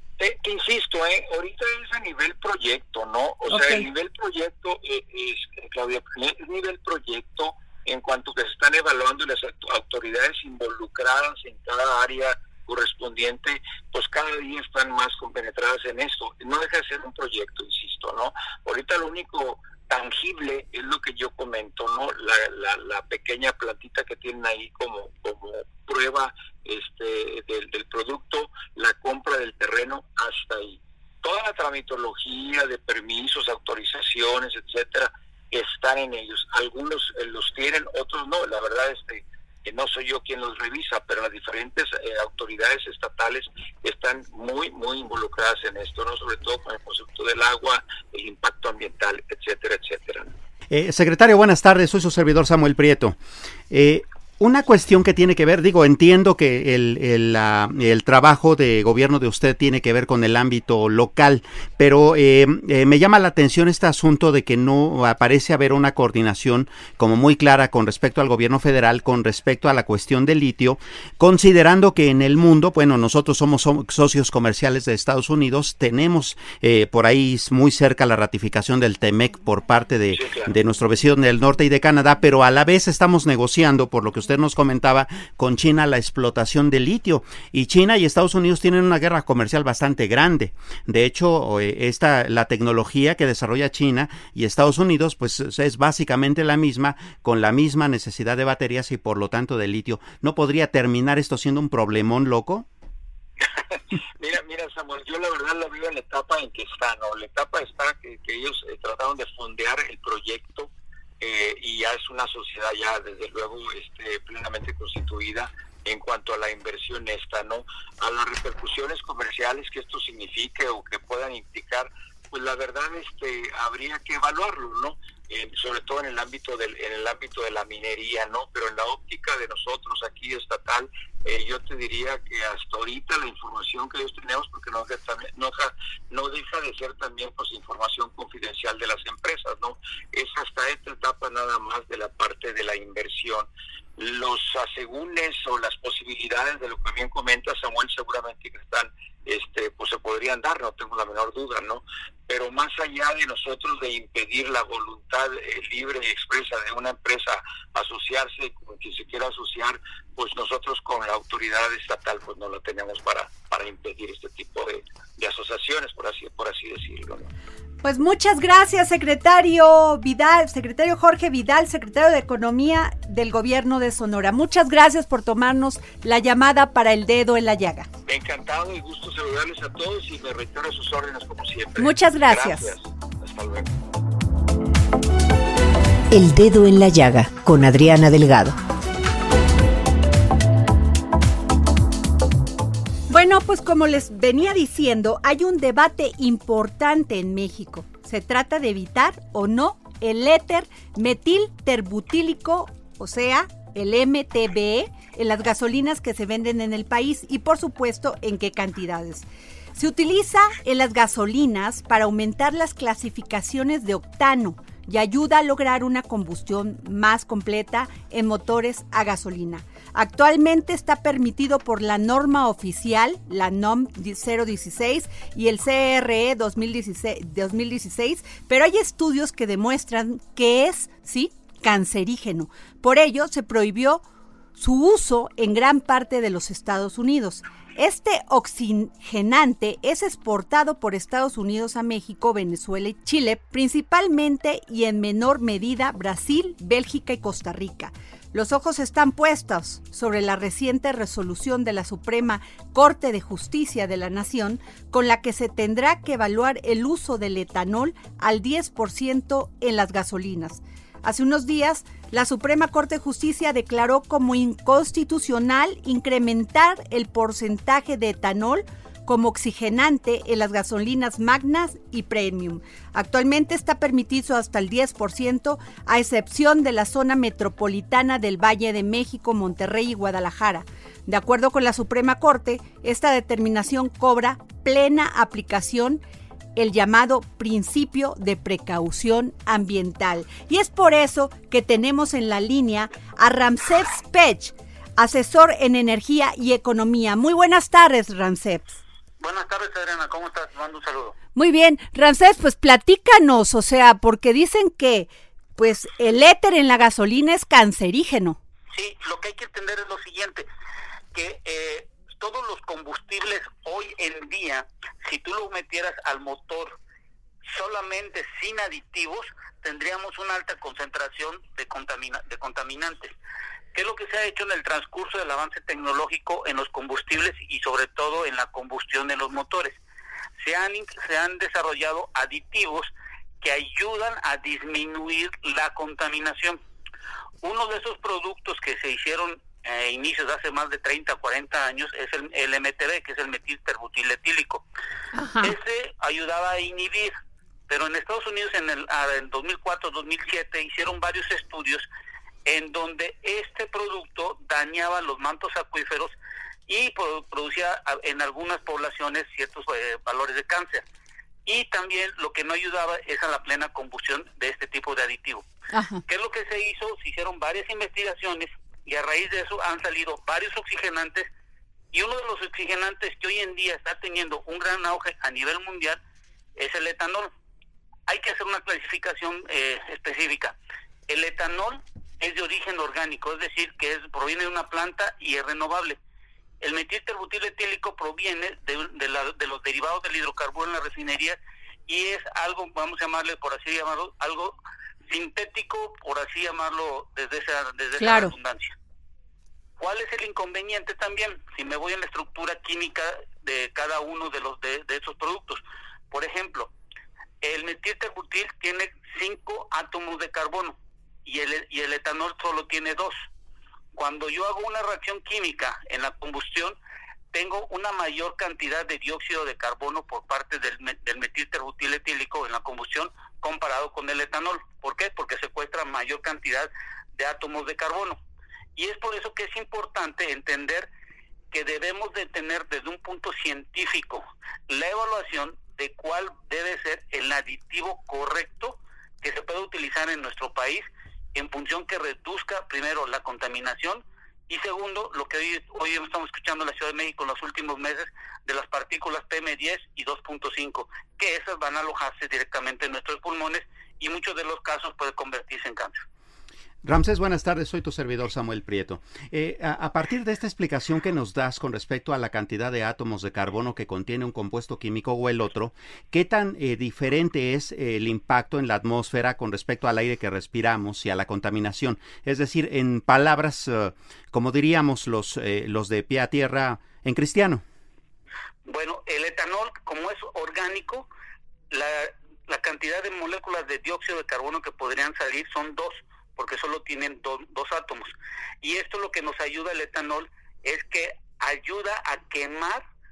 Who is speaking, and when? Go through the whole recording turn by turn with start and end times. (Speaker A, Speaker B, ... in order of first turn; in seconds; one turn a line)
Speaker A: 0.2-50.3
Speaker B: 3.5-3.9
Speaker C: 50.7-53.2
Speaker C: 53.7-102.7
Speaker A: 80.1-80.5
Speaker A: 103.7-167.3
Speaker B: 167.8-177.9
Speaker A: 178.1-183.7
Speaker B: 181.8-182.7
Speaker D: 186.1-188.6
Speaker B: 193.1-234.0
Speaker B: 234.6-286.0
Speaker B: 286.6-298.8
Speaker E: 299.2-301.2
Speaker B: 301.4-308.4
Speaker E: 308.7-310.5
Speaker E: 311.1-316.8
Speaker E: 317.5-323.1
Speaker E: 323.7-329.8
Speaker E: 330.4-336.6
Speaker E: 337.4-344.6
Speaker B: 345.1-345.5
Speaker E: 345.4-347.1
Speaker E: 347.7-351.9
Speaker E: 352.4-356.1
Speaker E: 356.7-360.9
Speaker E: 361.4-365.4
Speaker B: 365.7-366.0
Speaker E: 366.1-371.3
Speaker E: 371.9-376.0
Speaker E: 376.6-377.3
Speaker E: 378.1-380.6
Speaker E: 381.1-386.0
Speaker E: 386.6-394.6
Speaker E: 395.1-398.8
Speaker B: 398.0-398.3
Speaker E: 399.8-406.7
Speaker E: 407.4-413.2
Speaker E: 413.9-416.8
Speaker E: 417.3-428.2
Speaker E: 428.8-430.9
Speaker E: 431.5-456.0
Speaker C: 456.8-477.6
Speaker E: 478.7-481.1
Speaker E: 481.7-492.8